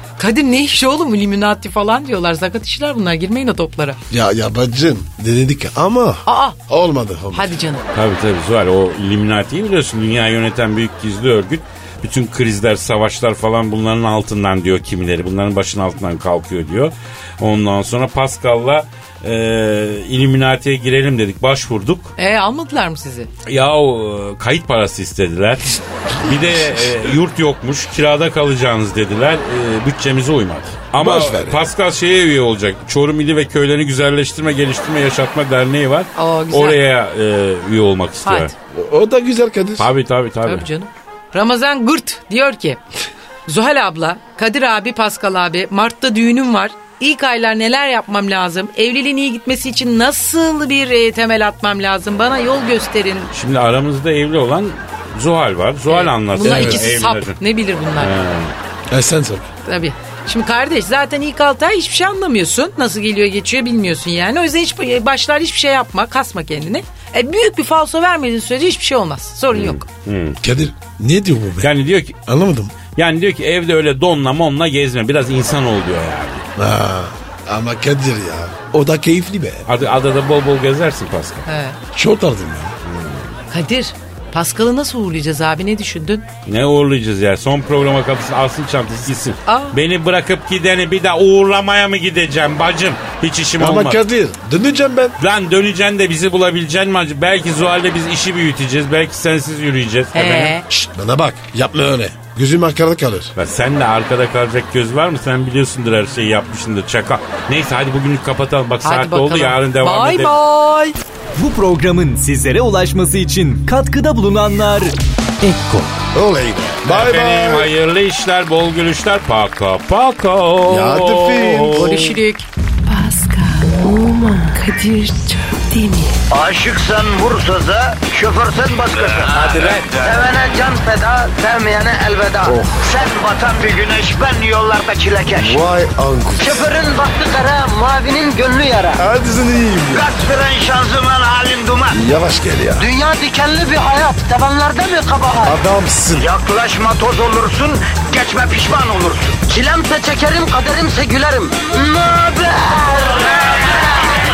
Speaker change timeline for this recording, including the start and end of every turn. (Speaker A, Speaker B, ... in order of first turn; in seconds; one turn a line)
Speaker A: 0.2-4.0
Speaker B: 4.1-7.5
Speaker A: 6.2-6.6
Speaker A: 7.3-7.8
Speaker C: 7.9-22.1
Speaker A: 22.2-23.3
Speaker C: 23.4-38.5
Speaker B: 26.2-26.8
Speaker B: 30.9-31.6
Speaker A: 36.1-36.8
Speaker A: 38.2-38.5
Speaker B: 38.7-39.9
Speaker C: 39.8-40.6
Speaker A: 40.5-42.8
Speaker A: 43.5-53.3
Speaker C: 53.3-57.4
Speaker A: 55.9-58.1
Speaker B: 56.4-56.9
Speaker C: 58.0-58.5
Speaker B: 58.9-59.5
Speaker A: 59.6-69.8
Speaker C: 69.5-70.4
Speaker B: 70.4-71.7
Speaker C: 71.6-72.2
Speaker B: 72.2-72.7
Speaker C: 72.9-76.4
Speaker B: 76.5-79.6
Speaker C: 79.7-81.4
Speaker A: 81.5-81.8
Speaker B: 81.9-82.7
Speaker C: 82.8-83.3
Speaker A: 83.5-86.3
Speaker C: 86.5-94.0
Speaker A: 89.5-89.8
Speaker B: 93.6-95.2
Speaker C: 95.2-100.6
Speaker A: 100.1-100.6
Speaker B: 100.7-103.3
Speaker C: 103.3-110.3
Speaker A: 108.8-111.0
Speaker D: 111.3-116.0
Speaker B: 116.1-117.7
Speaker C: 116.8-122.0
Speaker B: 120.6-122.1
Speaker A: 121.7-122.5
Speaker E: 122.8-126.2
Speaker F: 126.3-135.6
Speaker B: 132.4-132.9
Speaker B: 135.3-136.7
Speaker F: 136.4-139.0
Speaker B: 139.0-140.1
Speaker F: 139.9-142.0
Speaker B: 141.9-142.9
Speaker F: 142.8-145.6
Speaker B: 145.4-146.3
Speaker F: 146.1-154.1